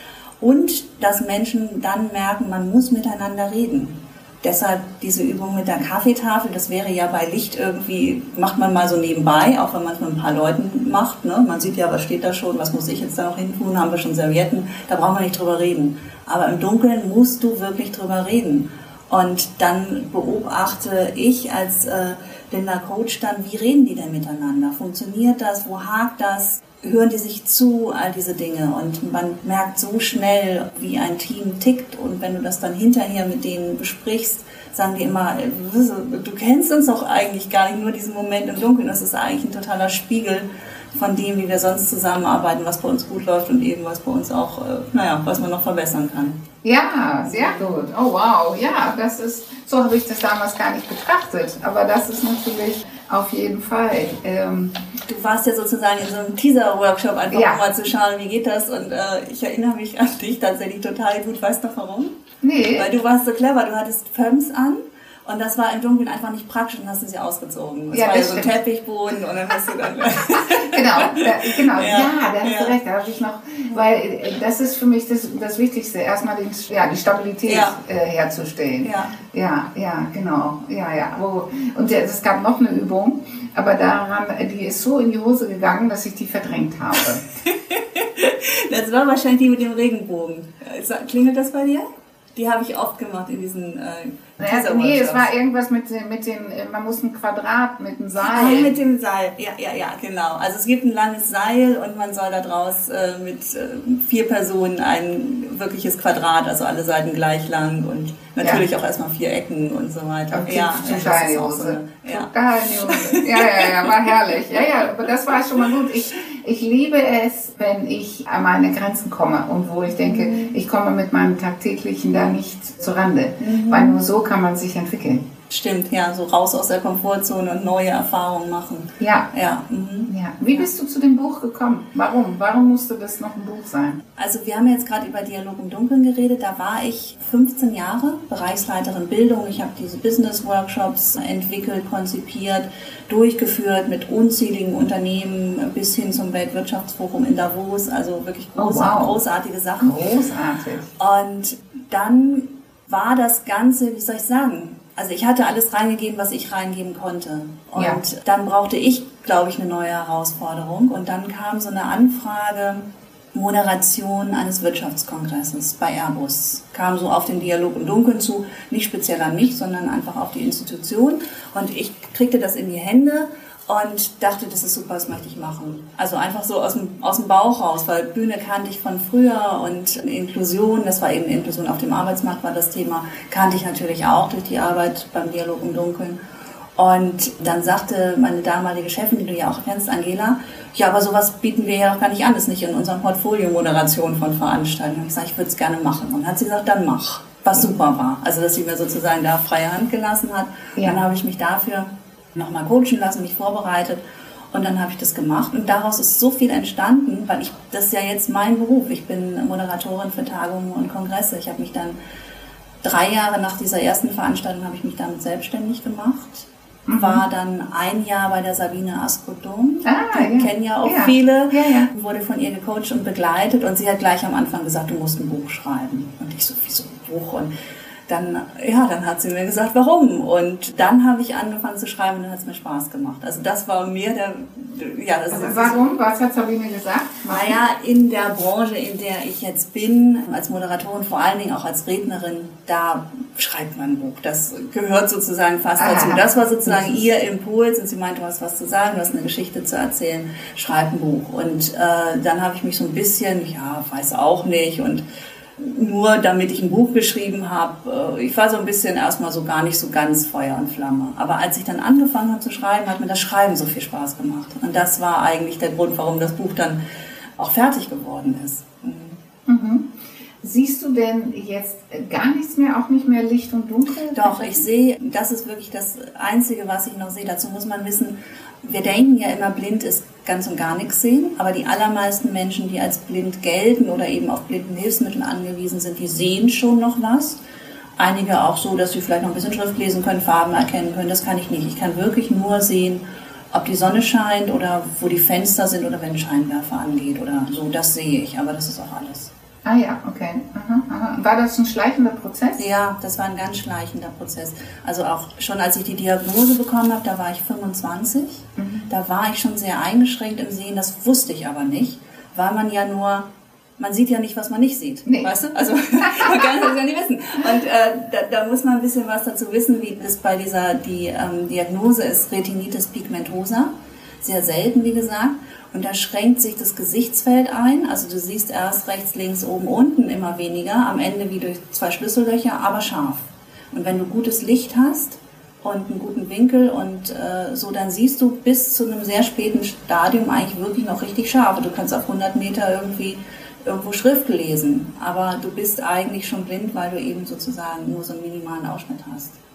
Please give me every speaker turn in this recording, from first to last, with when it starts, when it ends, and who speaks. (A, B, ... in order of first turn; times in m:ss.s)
0:00.4-0:46.4 A
0:46.6-0:54.8 B
0:47.2-0:47.9 A
0:55.1-1:02.2 A
0:57.3-0:57.6 B
1:02.4-1:02.9 B
1:02.8-1:12.7 A
1:07.9-1:08.5 B
1:10.7-1:27.2 B
1:17.5-1:17.8 A
1:18.8-1:19.2 A
1:27.5-1:35.3 A
1:34.4-1:38.7 B
1:38.2-1:53.9 A
1:50.3-2:05.2 B
2:00.0-2:00.5 A
2:03.4-2:04.0 A
2:05.5-2:10.7 A
2:09.0-2:09.3 B
2:10.1-2:14.0 B
2:14.2-2:30.0 A
2:28.6-2:29.2 B
2:29.8-2:30.9 B
2:31.0-3:06.2 A
3:06.8-3:24.0 A
3:24.5-3:32.0 A
3:32.8-3:47.5 A
3:36.8-3:37.2 B
3:39.8-3:41.9 B
3:48.1-3:55.8 A
3:55.3-3:57.6 B
3:57.3-4:15.0 A
4:05.8-4:07.0 B
4:15.6-4:26.8 A
4:27.4-4:29.2 A
4:29.5-4:34.6 B
4:34.1-4:47.4 A
4:48.0-4:59.3 A
4:59.6-5:02.7 B
5:02.6-5:13.3 A
5:08.6-5:08.9 B
5:13.8-5:49.4 A
5:15.0-5:15.3 B
5:16.0-5:16.7 B